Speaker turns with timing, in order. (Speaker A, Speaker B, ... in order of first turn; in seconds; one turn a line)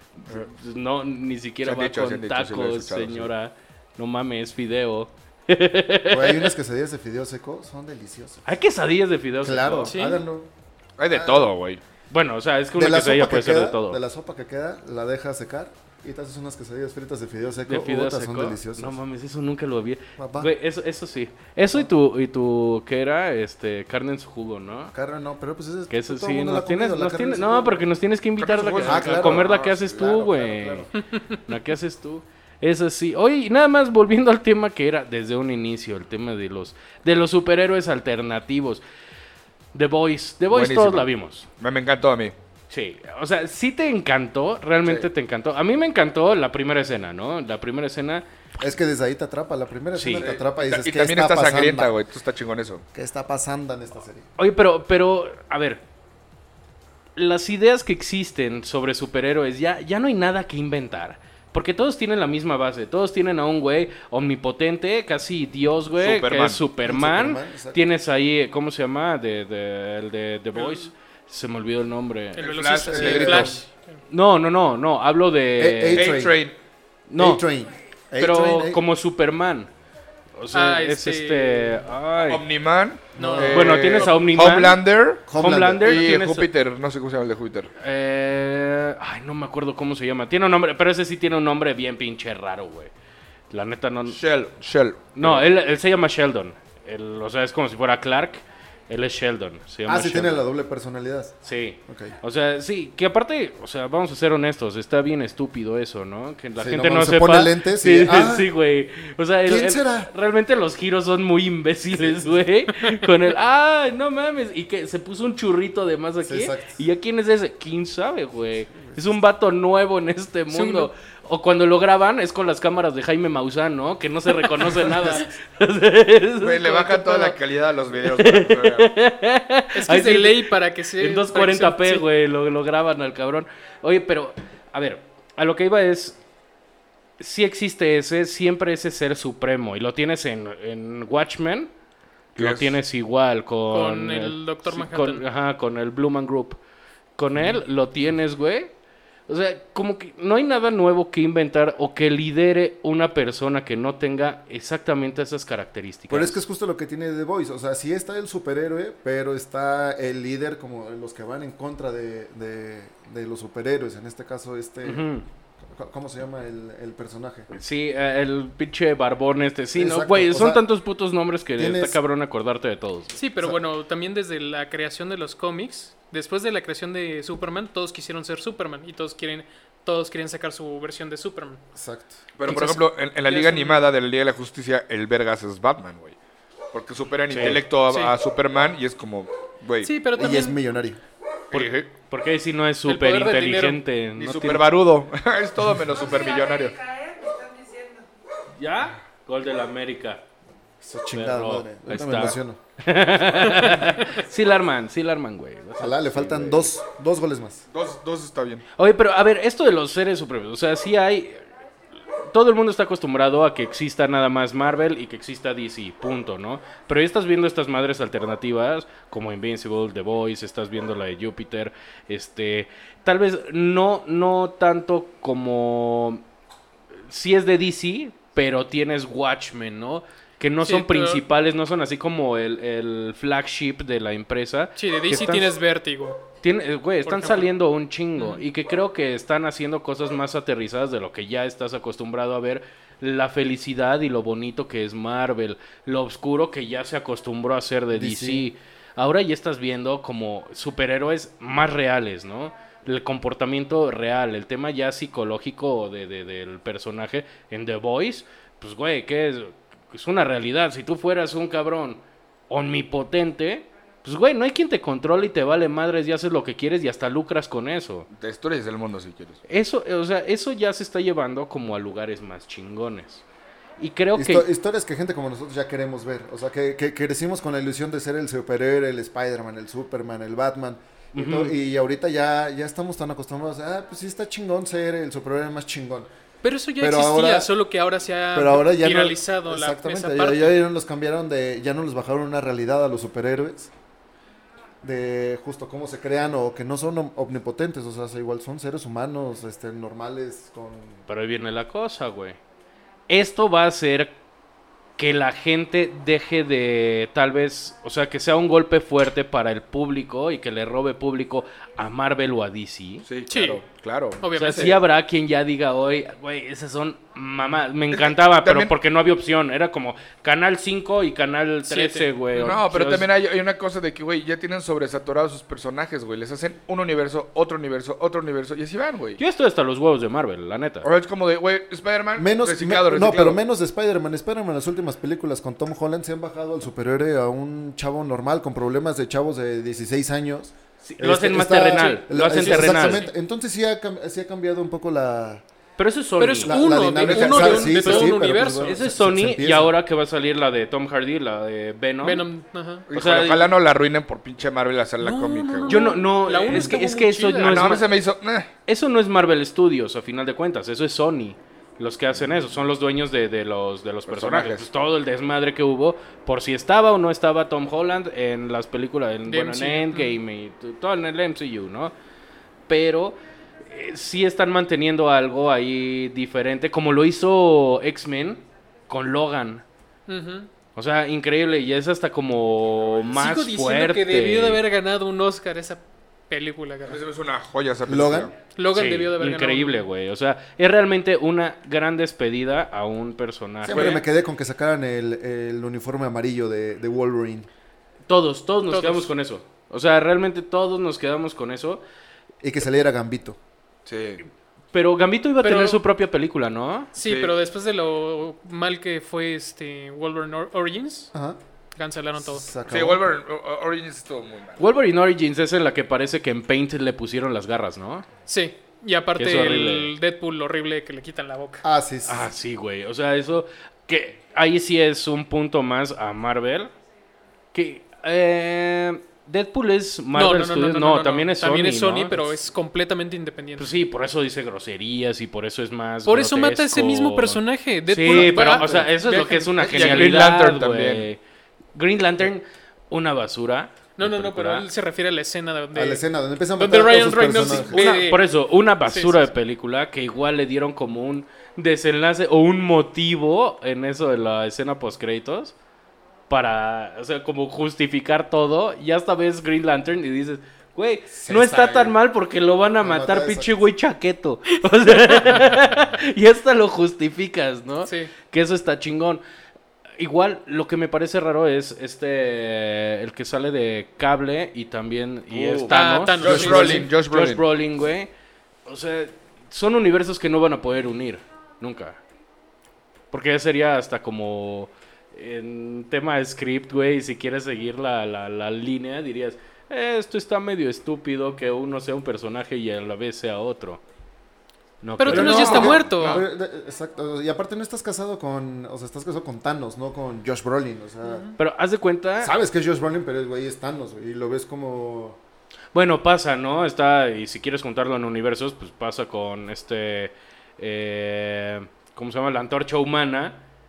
Speaker A: 0.3-6.5
Speaker B: 1.6-3.3
Speaker C: 6.1-8.5
Speaker A: 8.5-10.0
Speaker C: 9.4-10.5
Speaker D: 9.8-10.2
Speaker B: 11.0-11.8
Speaker C: 11.1-11.5
Speaker A: 12.1-14.0
Speaker C: 12.8-19.0
Speaker A: 17.7-24.9
Speaker C: 20.2-20.5
Speaker C: 24.9-27.8
Speaker A: 25.9-30.9
Speaker B: 28.4-30.2
Speaker C: 28.8-30.9
Speaker A: 31.5-38.8
Speaker A: 39.7-41.5
Speaker B: 40.5-42.4
Speaker A: 42.7-48.2
Speaker C: 48.6-51.9
Speaker A: 50.0-50.3
Speaker B: 50.2-52.9
Speaker C: 52.9-54.3
Speaker A: 54.4-55.8
Speaker A: 57.2-72.5
Speaker B: 66.0-66.6
Speaker C: 66.8-67.8
Speaker D: 72.4-74.0
Speaker B: 72.4-73.6
Speaker C: 72.9-73.6
Speaker A: 74.1-76.1
Speaker C: 75.6-76.4
Speaker B: 75.9-76.5
Speaker A: 77.1-77.4
Speaker C: 77.2-78.8
Speaker A: 78.2-79.7
Speaker A: 80.4-82.4
Speaker D: 80.5-81.9
Speaker B: 82.3-85.2
Speaker C: 83.2-83.7
Speaker D: 83.2-84.2
Speaker A: 83.5-84.8
Speaker C: 85.3-86.1
Speaker A: 85.3-86.5
Speaker B: 85.8-87.7
Speaker A: 87.8-92.9
Speaker A: 93.5-94.2
Speaker B: 94.1-95.5
Speaker A: 95.2-100.5
Speaker C: 99.9-102.2
Speaker A: 101.4-127.3
Speaker C: 106.6-108.5
Speaker C: 109.5-110.1
Speaker C: 116.2-116.8
Speaker C: 118.8-119.2
Speaker D: 120.5-120.9
Speaker B: 126.4-128.9
Speaker A: 128.1-136.2
Speaker D: 129.7-132.1
Speaker A: 137.2-141.7
Speaker A: 142.3-146.6
Speaker B: 142.4-142.8
Speaker D: 143.7-145.2
Speaker A: 147.2-148.7
Speaker A: 149.3-156.4
Speaker C: 156.1-165.1
Speaker A: 164.8-165.2
Speaker C: 165.6-167.5
Speaker A: 167.5-173.2
Speaker C: 169.8-170.7
Speaker C: 171.6-172.0
Speaker D: 173.2-181.6
Speaker C: 181.8-182.2
Speaker B: 182.4-186.2
Speaker D: 182.5-183.9
Speaker B: 186.7-189.9
Speaker A: 187.3-187.6
Speaker D: 187.9-188.2
Speaker D: 189.8-190.6
Speaker C: 190.1-191.0
Speaker B: 191.5-191.9
Speaker A: 191.6-194.7
Speaker D: 192.8-193.8
Speaker B: 194.2-196.9
Speaker A: 198.6-200.2
Speaker C: 200.8-202.6
Speaker A: 201.1-206.7
Speaker D: 203.5-204.0
Speaker C: 205.8-207.6
Speaker B: 207.7-208.7
Speaker A: 208.8-211.5
Speaker A: 212.2-226.2
Speaker A: 227.1-235.6
Speaker D: 230.6-231.2
Speaker D: 234.8-236.2
Speaker A: 236.4-268.1
Speaker D: 237.1-237.5
Speaker D: 238.2-238.4
Speaker C: 247.9-248.5
Speaker B: 268.1-269.4
Speaker A: 269.5-273.2
Speaker A: 273.8-274.5
Speaker C: 274.1-286.1
Speaker A: 281.1-281.6
Speaker D: 286.4-290.6
Speaker C: 286.8-287.5
Speaker C: 288.3-293.7
Speaker C: 294.8-301.0
Speaker A: 301.1-302.4
Speaker A: 303.1-304.1
Speaker A: 305.0-313.1
Speaker B: 313.1-314.8
Speaker D: 313.3-313.6
Speaker D: 314.2-314.8
Speaker A: 314.3-323.1
Speaker B: 317.9-318.7
Speaker D: 321.7-322.5
Speaker B: 322.4-329.2
Speaker A: 329.2-330.9
Speaker B: 330.8-333.4
Speaker C: 332.2-345.4
Speaker A: 340.8-343.1
Speaker D: 341.7-343.1
Speaker A: 345.8-346.8
Speaker D: 346.2-348.8
Speaker C: 346.4-349.8
Speaker B: 347.0-348.1
Speaker A: 348.6-352.3
Speaker D: 352.0-352.9
Speaker B: 352.9-355.9
Speaker A: 352.9-353.5
Speaker D: 355.0-357.8
Speaker A: 355.7-357.9
Speaker B: 356.5-356.7
Speaker B: 357.4-358.5
Speaker A: 358.7-371.9
Speaker B: 364.1-364.7
Speaker D: 369.3-370.2
Speaker A: 372.7-379.6
Speaker D: 380.1-380.5
Speaker A: 380.8-384.6
Speaker D: 383.1-387.0
Speaker B: 386.9-388.4
Speaker C: 387.9-388.3
Speaker D: 388.6-389.9
Speaker A: 388.7-394.0
Speaker C: 393.6-397.5
Speaker B: 393.7-394.0
Speaker A: 398.1-401.8
Speaker D: 398.7-399.1
Speaker C: 402.4-403.4
Speaker B: 403.9-404.2
Speaker A: 404.7-406.9
Speaker D: 405.4-405.8
Speaker D: 406.9-411.1
Speaker B: 407.0-407.4
Speaker C: 411.1-411.4
Speaker D: 411.8-412.6
Speaker C: 412.2-413.0
Speaker B: 412.7-414.6
Speaker A: 414.6-418.1
Speaker D: 418.3-421.6
Speaker A: 419.2-419.9
Speaker C: 421.6-422.3
Speaker A: 422.1-426.7
Speaker A: 427.5-432.2
Speaker D: 430.1-433.7
Speaker A: 433.6-441.2
Speaker D: 436.1-440.2
Speaker C: 438.6-438.9
Speaker B: 439.6-441.1
Speaker A: 441.8-444.7
Speaker D: 444.0-446.0
Speaker C: 445.7-447.9
Speaker D: 446.6-448.3
Speaker A: 447.7-455.6
Speaker D: 448.9-449.3
Speaker A: 456.3-469.2
Speaker C: 461.1-462.0
Speaker C: 462.8-463.6
Speaker D: 465.1-465.4
Speaker D: 467.9-468.1
Speaker A: 470.0-478.1
Speaker B: 475.3-477.4
Speaker D: 475.7-476.9
Speaker A: 478.7-482.0
Speaker A: 483.1-493.8
Speaker A: 494.8-495.8
Speaker D: 495.0-496.2
Speaker C: 495.1-501.3
Speaker B: 495.1-496.2
Speaker D: 501.1-501.4
Speaker A: 501.4-502.3
Speaker C: 502.2-505.2
Speaker A: 505.7-513.4